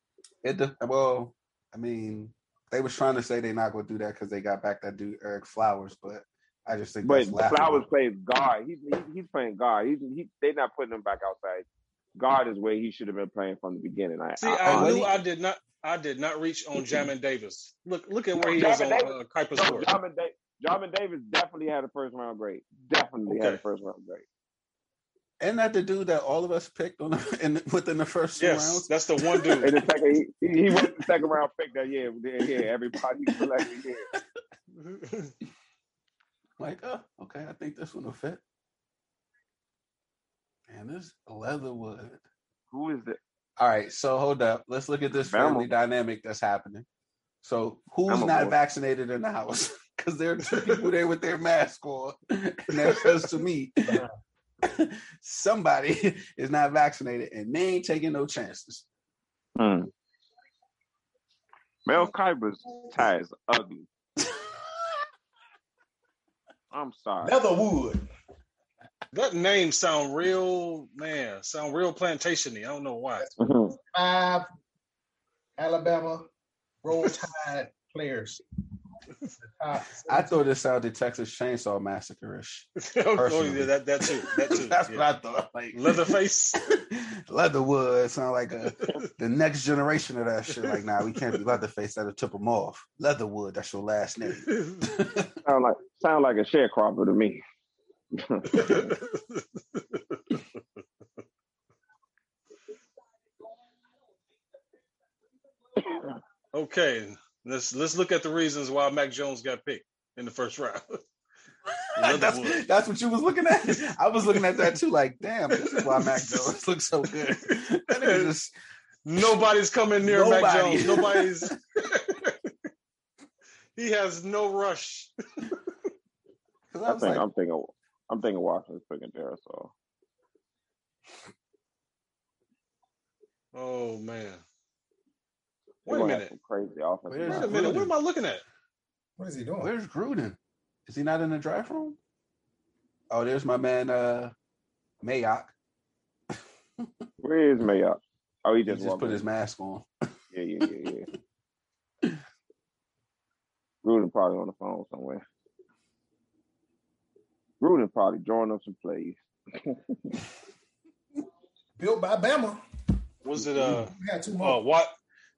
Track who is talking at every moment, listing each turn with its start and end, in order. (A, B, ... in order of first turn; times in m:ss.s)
0:00.4-0:07.9 A
0:07.0-0:15.1 B
0:14.4-0:19.9 C
0:14.6-0:15.1 A
0:18.4-0:24.2 B
0:23.3-0:23.6 C
0:25.4-0:29.7 A
0:28.4-0:29.7 C
0:29.6-0:34.1 B
0:33.3-0:34.2 A
0:34.8-0:35.3 C
0:36.6-0:38.4 A
0:40.7-0:42.2 A
0:42.7-0:43.2 B
0:43.6-0:46.9 A
0:45.2-0:45.7 B
0:47.4-0:54.0 A
0:48.1-0:48.6 B
0:50.5-0:50.8 C
0:52.8-0:53.1 C
0:54.6-0:58.9 A
0:59.6-0:59.9 B
1:01.9-1:03.9 B
1:02.7-1:02.9 D
1:06.7-1:07.4 B
1:07.2-1:08.1 D
1:09.1-1:13.2 C
1:13.2-1:14.5 D
1:13.4-1:13.7 B
1:15.6-1:16.3 D
1:16.8-1:18.4 D
1:19.4-1:20.4 D
1:20.1-1:35.4 A
1:22.8-1:25.0 C
1:25.7-1:26.6 C
1:34.5-1:34.8 C
1:35.4-1:37.4 B
1:38.1-1:38.9 B
1:38.5-1:40.4 C
1:45.8-1:46.1 B
1:46.5-1:51.0 C
1:51.7-1:58.5 A
1:52.0-1:52.6 C
1:55.6-1:56.5 C
1:57.9-1:58.3 C
1:59.0-2:02.4 C
2:00.0-2:01.5 A
2:03.8-2:05.5 C
2:06.7-2:07.3 A
2:06.9-2:09.7 B
2:13.5-2:14.4 C
2:15.9-2:16.3 C
2:15.9-2:17.8 B
2:17.1-2:17.9 A
2:17.3-2:18.4 C
2:19.2-2:19.7 D
2:19.6-2:22.0 A
2:23.1-2:24.3 A
2:25.0-2:25.5 A
2:27.2-2:29.2 B
2:28.7-2:29.9 A
2:30.3-2:31.1 B
2:33.8-2:35.2 B
2:37.6-2:40.2 B
2:41.8-2:42.6 D
2:43.2-2:44.9 C
2:43.4-2:43.7 A
2:43.7-2:44.6 D